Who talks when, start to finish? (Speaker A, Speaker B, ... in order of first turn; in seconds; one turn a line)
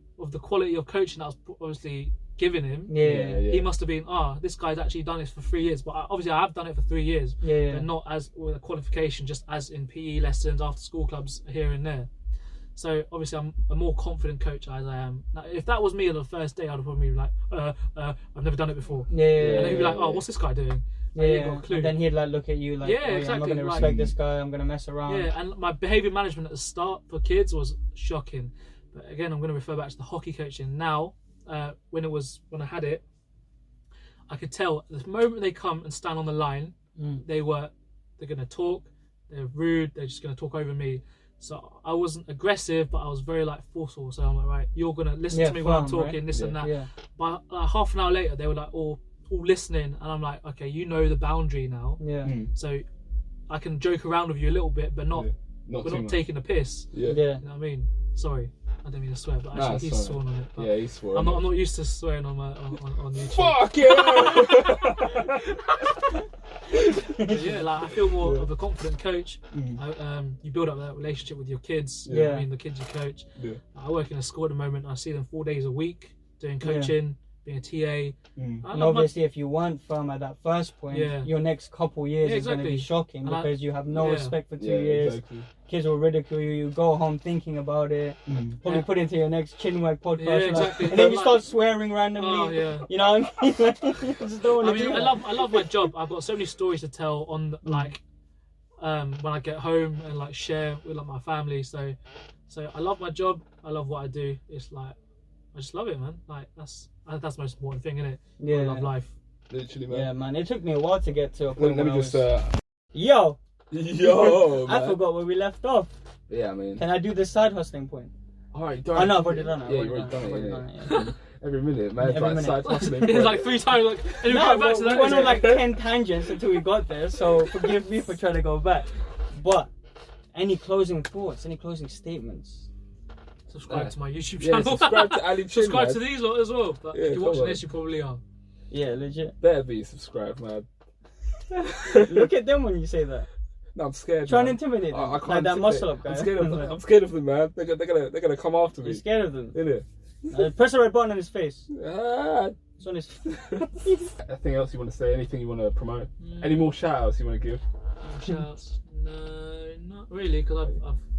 Speaker A: 0.2-12.1
Speaker B: 2.9-3.4
Speaker C: 3.0-3.7
Speaker B: 7.4-7.8
Speaker A: 12.8-22.0
Speaker B: 19.1-20.0
Speaker C: 19.3-20.2
Speaker B: 21.1-25.3
Speaker A: 22.8-23.9
Speaker C: 23.7-24.1
Speaker A: 25.1-33.0
Speaker A: 34.3-52.0
Speaker B: 37.0-37.2
Speaker B: 45.3-46.9
Speaker C: 46.3-46.6
Speaker B: 52.0-52.3
Speaker C: 52.2-52.5
Speaker A: 52.5-52.9
Speaker A: 53.5-55.3
Speaker C: 55.1-56.2
Speaker A: 55.8-66.1
Speaker C: 56.9-57.2
Speaker B: 57.0-57.4
Speaker C: 59.5-61.5
Speaker C: 63.2-65.6
Speaker C: 66.7-67.3
Speaker B: 67.0-67.6
Speaker A: 67.2-79.1
Speaker C: 67.9-68.5
Speaker C: 69.5-69.8
Speaker C: 72.0-72.4
Speaker B: 72.1-72.5
Speaker B: 76.6-76.9
Speaker C: 78.4-78.6
Speaker B: 78.7-95.7
Speaker A: 80.9-81.3
Speaker A: 82.2-84.4
Speaker C: 84.6-85.5
Speaker C: 88.3-88.6
Speaker A: 88.6-88.9
Speaker A: 90.1-91.5
Speaker A: 92.1-92.9
Speaker A: 94.6-98.0
Speaker C: 94.7-95.0
Speaker A: 98.8-102.0
Speaker A: 102.5-105.0
Speaker A: 105.5-109.1
Speaker B: 108.4-108.9
Speaker C: 109.5-110.1
Speaker B: 109.9-112.2
Speaker C: 111.6-112.5
Speaker B: 112.9-113.4
Speaker C: 113.7-115.0
Speaker B: 114.0-115.9
Speaker C: 116.3-116.8
Speaker B: 116.8-118.1
Speaker C: 118.5-123.6
Speaker B: 118.9-121.0
Speaker A: 120.8-121.1
Speaker B: 122.0-122.8
Speaker A: 122.4-125.6
Speaker B: 124.2-129.7
Speaker C: 124.3-125.8
Speaker B: 130.3-132.7
Speaker A: 133.5-138.2
Speaker C: 133.7-136.1
Speaker C: 136.9-137.6
Speaker B: 138.7-139.3
Speaker C: 139.4-140.7
Speaker C: 141.5-142.3
Speaker B: 141.9-143.3
Speaker C: 143.7-150.4
Speaker B: 144.2-146.8
Speaker B: 148.8-149.6
Speaker B: 150.3-151.7
Speaker C: 151.7-152.6
Speaker B: 152.8-153.2
Speaker C: 153.2-157.6
Speaker A: 156.2-156.7
Speaker A: 158.0-161.0